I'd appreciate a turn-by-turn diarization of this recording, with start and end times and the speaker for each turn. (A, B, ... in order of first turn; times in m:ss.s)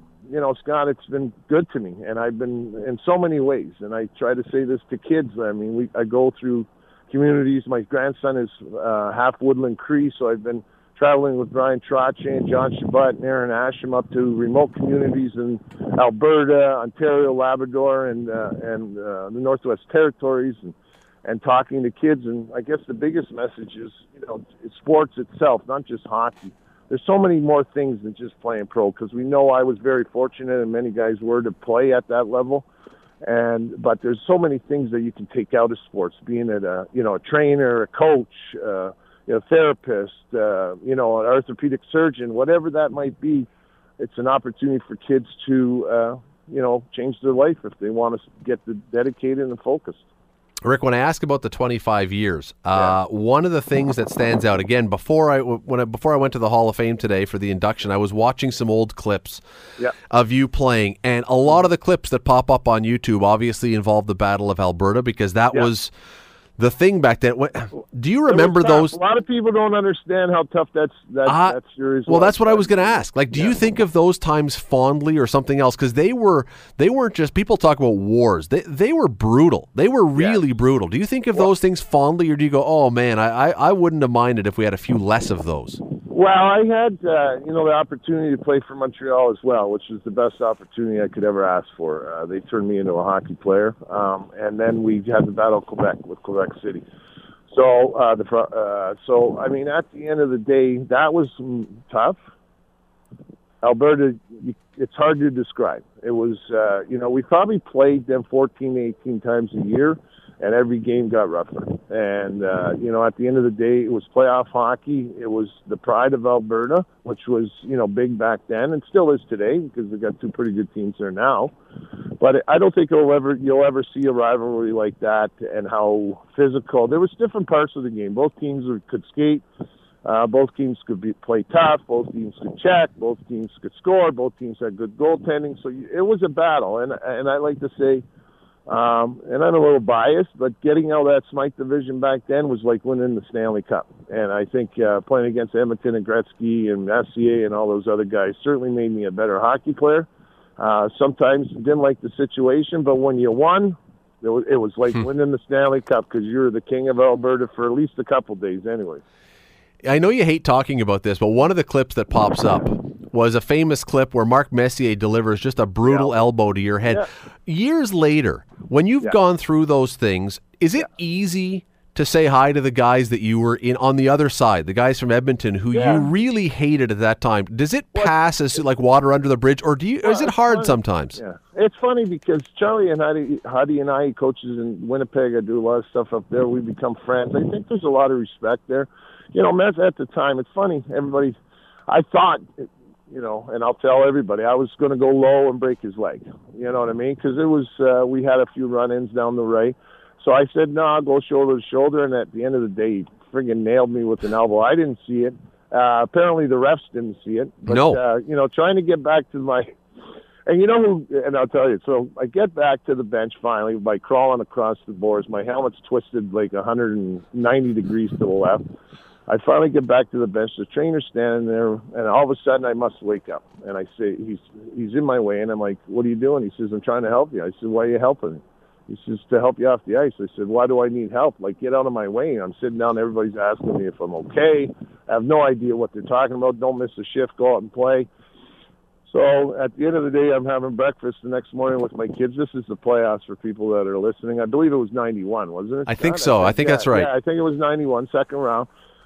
0:00.3-0:32.7 A
0:33.2-0:50.0 A
0:50.6-0:59.4 B
1:00.1-1:05.9 B
1:06.6-1:09.0 B
1:08.3-1:13.6 A
1:11.3-1:25.8 B
1:26.1-1:36.9 A
1:37.5-1:42.2 A
1:43.6-2:01.5 A
2:02.2-2:09.4 A
2:10.0-2:18.0 A
2:18.7-2:39.0 A
2:39.8-3:01.2 B
2:45.8-2:46.1 A
2:55.7-2:56.1 A
3:00.0-3:11.4 A
3:11.9-3:29.8 A
3:27.7-3:28.0 B
3:30.5-3:38.7 A
3:39.3-3:58.1 A
3:59.1-4:08.7 A
4:05.9-4:07.1 B